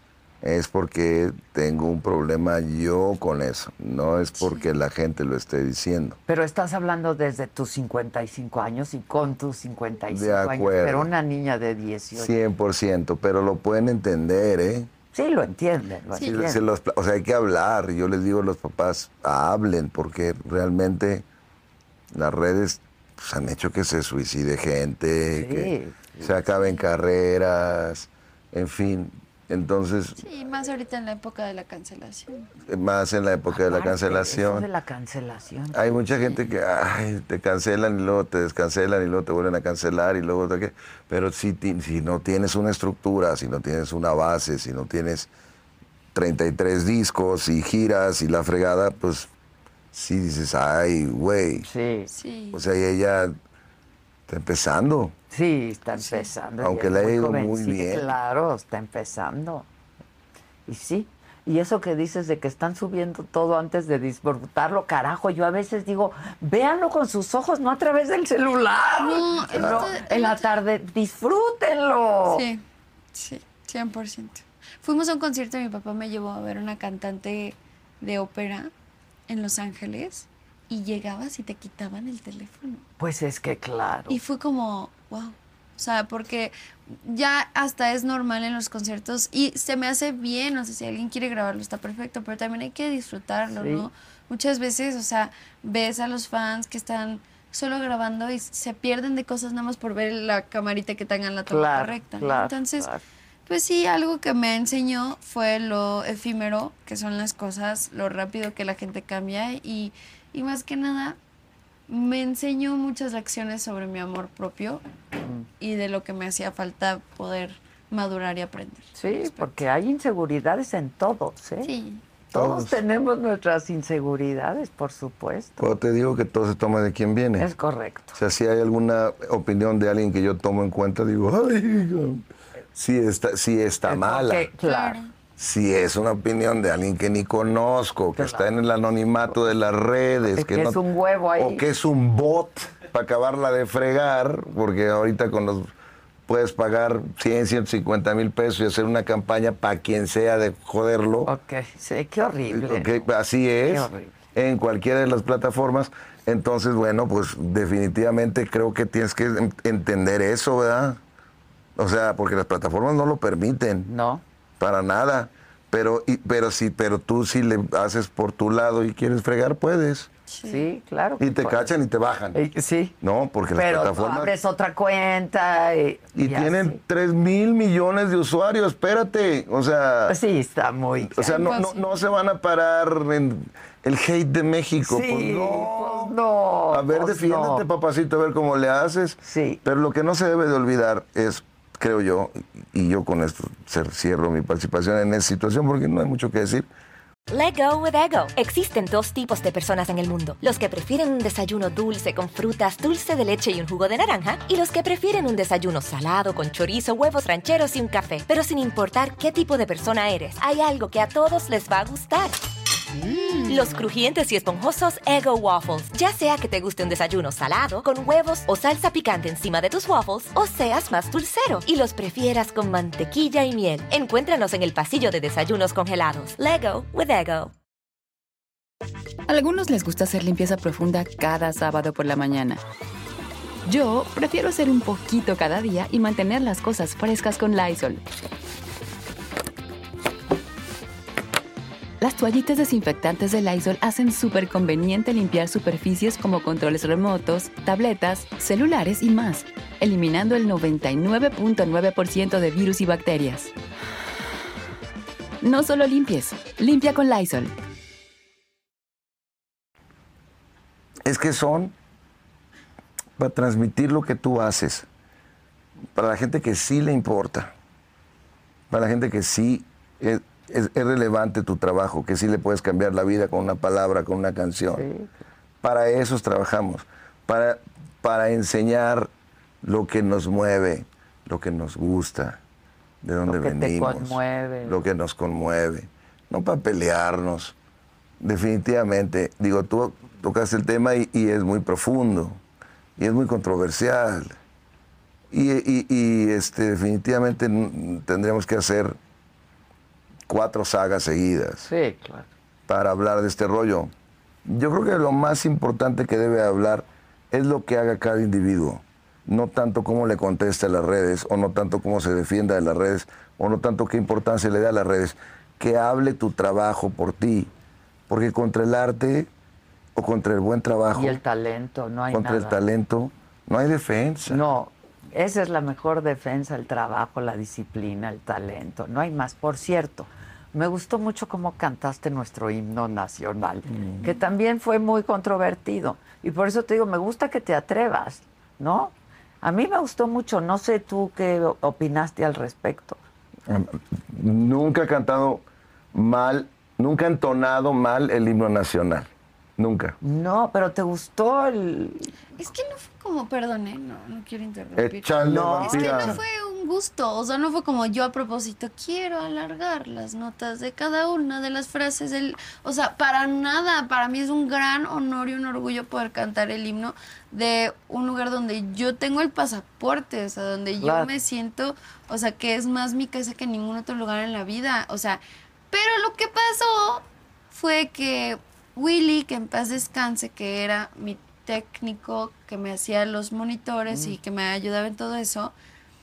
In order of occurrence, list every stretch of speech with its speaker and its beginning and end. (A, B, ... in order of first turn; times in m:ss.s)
0:00.4-0:06.2 A
0:04.4-0:04.6 B
0:06.3-0:12.3 C
0:10.1-0:11.1 A
0:12.2-0:14.9 A
0:15.1-0:16.6 C
0:16.1-0:16.4 B
0:16.2-0:21.2 A
0:22.1-0:30.2 A
0:25.3-0:26.4 C
0:26.6-0:26.8 B
0:30.2-0:32.5 B
0:32.6-0:34.7 A
0:33.5-0:36.4 C
0:35.7-0:45.3 A
0:46.1-0:49.3 A
0:49.9-0:51.7 A
0:51.6-0:52.1 C
0:52.1-0:52.6 B
0:52.5-0:53.3 A
0:54.3-0:55.1 A
0:55.3-0:59.7 C
0:55.9-0:56.3 B
0:56.6-0:58.1 A
1:00.7-1:12.4 C
1:09.0-1:10.4 B
1:09.5-1:09.9 A
1:12.3-1:12.6 B
1:13.1-1:18.7 B
1:19.3-1:22.8 B
1:23.0-1:24.2 C
1:24.1-1:42.9 B
1:33.5-1:33.9 C
1:41.5-1:43.0 C
1:43.5-1:51.2 B
1:51.9-1:54.8 B
1:55.6-1:59.6 B
1:59.0-2:01.7 C
2:01.6-2:02.0 B
2:02.3-2:05.7 C
2:02.3-2:02.8 A
2:05.6-2:07.5 A
2:07.4-2:08.2 C
2:08.2-2:14.5 A
2:13.8-2:15.0 C
2:14.6-2:15.1 B
2:15.4-2:20.8 A
2:18.2-2:18.5 C
2:20.3-2:21.6 C
2:21.4-2:25.7 A
2:26.3-2:31.3 A
2:31.2-2:33.1 C
2:32.5-2:41.0 A
2:33.6-2:34.1 C
2:41.8-2:43.9 A
2:43.9-2:44.2 C
2:44.6-2:50.1 A
2:50.3-2:50.7 B
2:50.4-2:51.7 C
2:51.2-2:52.4 A
2:52.3-2:52.9 C
2:53.0-2:54.3 A
2:53.5-2:56.8 C
2:56.2-3:00.2 A
3:00.1-3:01.5 C
3:01.1-3:06.2 A
3:01.2-3:02.0 B
3:04.8-3:07.6 C
3:06.7-3:16.7 A
3:09.2-3:09.6 C
3:17.3-3:32.4 D
3:33.4-3:47.5 D
3:49.3-3:52.6 E
3:53.6-3:58.0 E
4:02.0-4:13.5 E
4:15.4-4:17.5 E
4:21.0-4:21.7 A
4:23.2-4:24.9 A
4:25.9-4:27.5 A
4:28.7-4:34.8 A
4:34.7-4:35.1 C
4:35.6-4:39.1 A
4:39.6-4:42.4 A
4:43.0-4:47.5 A
4:43.2-4:44.8 C
4:48.2-4:52.4 A
4:53.0-4:54.4 A
4:55.3-4:59.0 A
5:00.3-5:01.7 A
5:01.6-5:02.3 C
5:02.7-5:03.9 A
5:04.4-5:17.5 A
5:18.1-5:19.3 A
5:19.9-5:21.2 A
5:20.9-5:22.6 C
5:22.1-5:24.4 A
5:24.3-5:43.0 C
5:33.8-5:34.0 A
5:43.5-5:50.0 A
5:50.0-5:52.1 C
5:52.4-6:25.5 B
5:54.8-5:56.2 A
5:55.2-5:56.2 C
6:10.8-6:11.1 C
6:23.9-6:24.2 C